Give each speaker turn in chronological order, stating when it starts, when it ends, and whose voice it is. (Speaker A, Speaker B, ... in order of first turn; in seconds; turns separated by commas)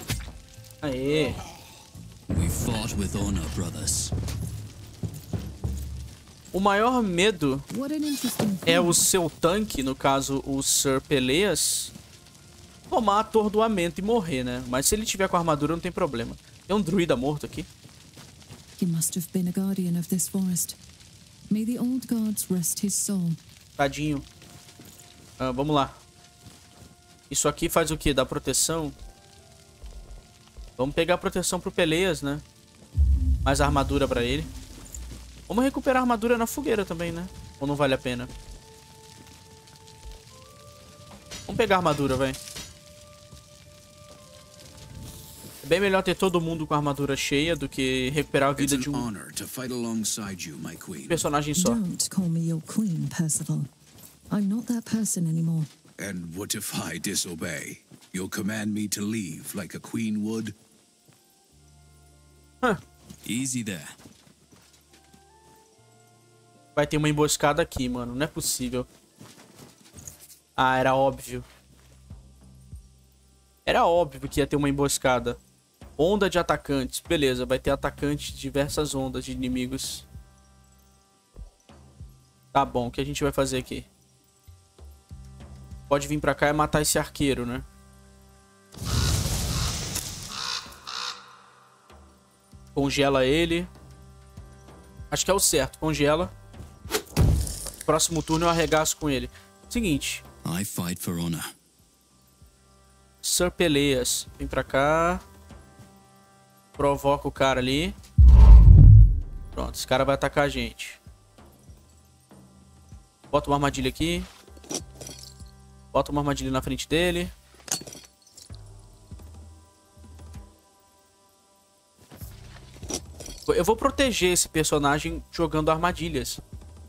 Speaker A: 0.8-1.4, Speaker B: 2.3-4.1, Speaker A: 6.5-7.7, Speaker C: 7.7-9.1, Speaker A: 8.7-11.9, Speaker A: 12.9-17.7, Speaker C: 18.8-20.8, Speaker C: 21.5-23.4, Speaker A: 23.8-24.2, Speaker A: 25.4-25.9, Speaker A: 27.3-28.9, Speaker A: 30.8-32.4, Speaker A: 33.4-34.5, Speaker A: 35.5-38.3, Speaker A: 41.5-42.4, Speaker A: 45.6-49.1, Speaker D: 48.6-51.3, Speaker A: 51.1-51.8, Speaker C: 51.5-53.7, Speaker C: 54.3-55.7, Speaker D: 56.0-60.5, Speaker B: 63.2-64.0, Speaker A: 66.8-68.9, Speaker A: 70.6-71.4, Speaker A: 73.7-75.4, Speaker A: 76.0-80.1, Speaker A: 82.5-83.9, Speaker A: 85.9-87.7, Speaker A: 92.7-93.7, Speaker A: 95.1-96.3, Speaker A: 97.9-100.2, Speaker B: 100.4-101.5, Speaker A: 103.2-105.2, Speaker A: 106.8-107.9, Speaker A: 109.5-111.0, Speaker A: 113.3-114.3, Speaker A: 115.9-117.3, Speaker A: 123.5-126.4